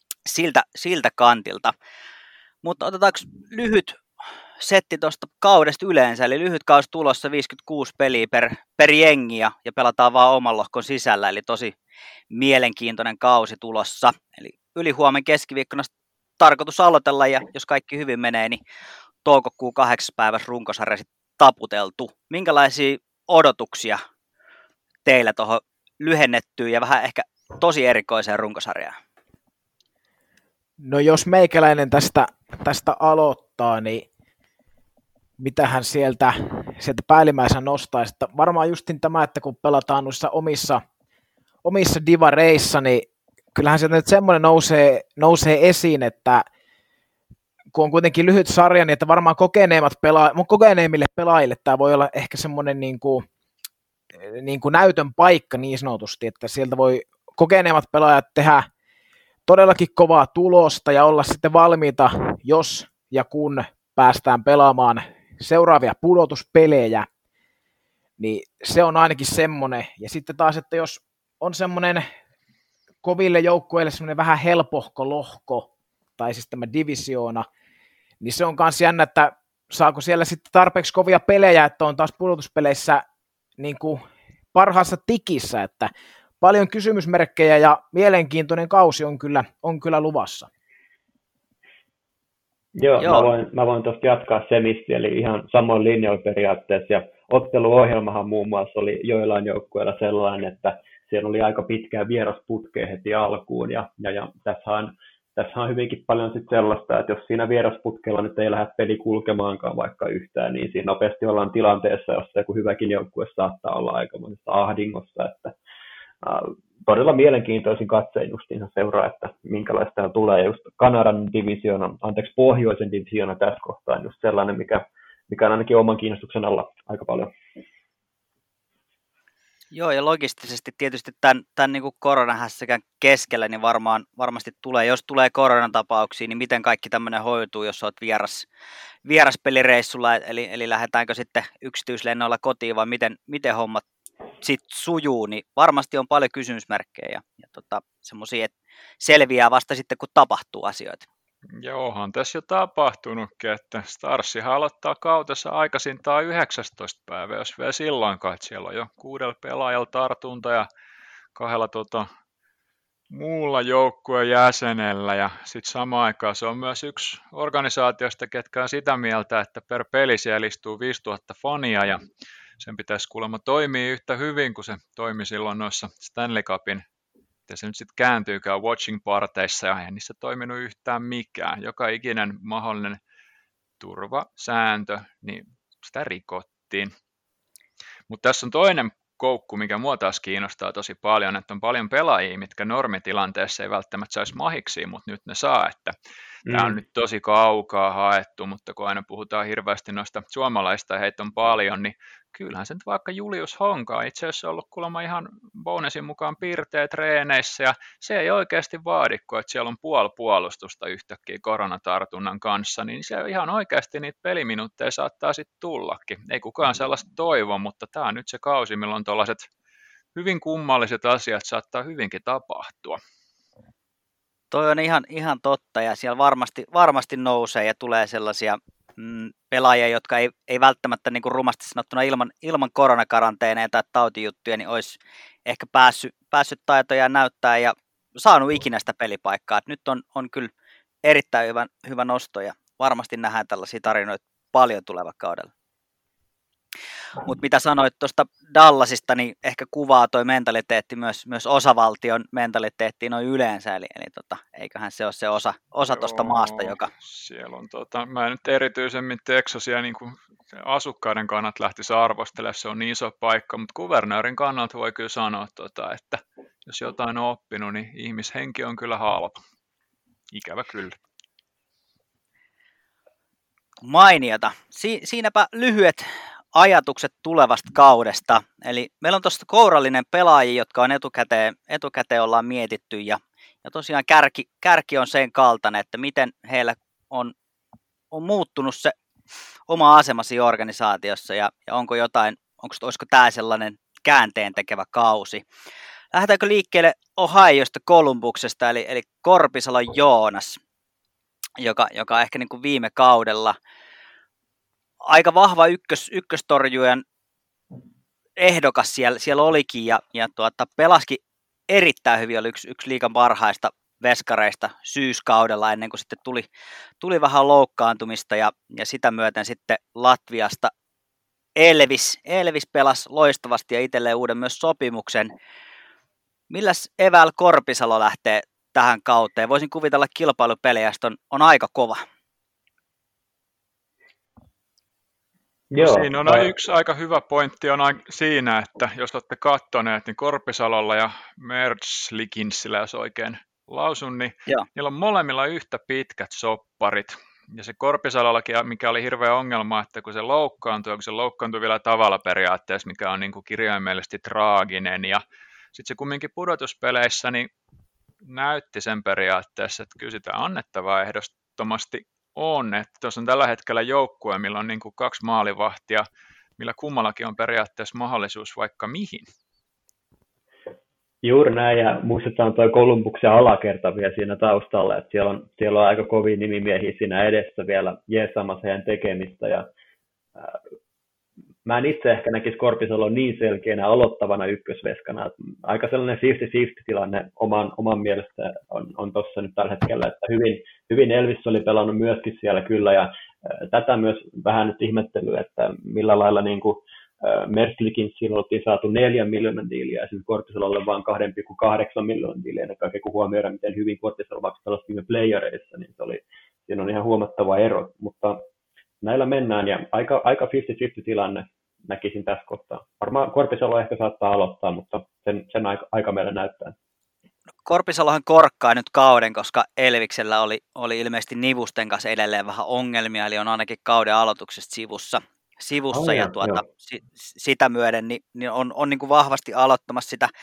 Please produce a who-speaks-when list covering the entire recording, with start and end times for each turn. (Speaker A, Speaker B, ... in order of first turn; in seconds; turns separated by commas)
Speaker A: 0.2-1.7, Speaker A: 2.6-4.0, Speaker A: 4.6-11.7, Speaker A: 12.3-18.6, Speaker A: 19.2-24.0, Speaker A: 25.0-29.0, Speaker B: 30.8-34.0, Speaker B: 35.4-40.8, Speaker B: 41.6-46.5, Speaker B: 47.7-53.2, Speaker B: 54.1-58.7, Speaker B: 59.5-67.1, Speaker B: 68.2-72.0, Speaker B: 73.0-77.5, Speaker B: 78.2-83.0, Speaker B: 83.6-84.0, Speaker B: 84.5-85.9, Speaker B: 86.4-90.5, Speaker C: 92.8-115.5, Speaker A: 93.0-93.3, Speaker C: 116.2-127.3, Speaker A: 129.7-138.5, Speaker A: 139.0-143.8, Speaker A: 144.4-151.1, Speaker D: 151.6-160.7, Speaker D: 161.3-162.1, Speaker D: 163.1-172.0, Speaker D: 172.6-176.8, Speaker D: 177.5-183.0, Speaker D: 183.8-186.9, Speaker D: 188.1-195.9, Speaker C: 196.4-196.8, Speaker D: 196.5-219.5, Speaker D: 220.1-223.0, Speaker A: 224.5-240.5, Speaker A: 241.0-245.5, Speaker A: 247.2-256.9, Speaker D: 255.9-269.4, Speaker D: 270.3-271.0, Speaker A: 273.8-287.3, Speaker A: 288.1-288.9, Speaker A: 289.7-295.4, Speaker A: 296.1-300.6, Speaker A: 301.6-303.6, Speaker A: 305.0-307.0, Speaker A: 308.4-316.5, Speaker A: 317.0-320.7, Speaker A: 321.6-325.3, Speaker A: 326.5-332.0, Speaker C: 335.7-336.5, Speaker D: 335.8-355.2, Speaker D: 355.7-357.5, Speaker D: 358.2-366.0, Speaker D: 366.6-369.2, Speaker C: 371.2-379.7, Speaker C: 381.6-408.4, Speaker C: 409.0-416.7, Speaker A: 417.6-430.3, Speaker C: 425.9-426.6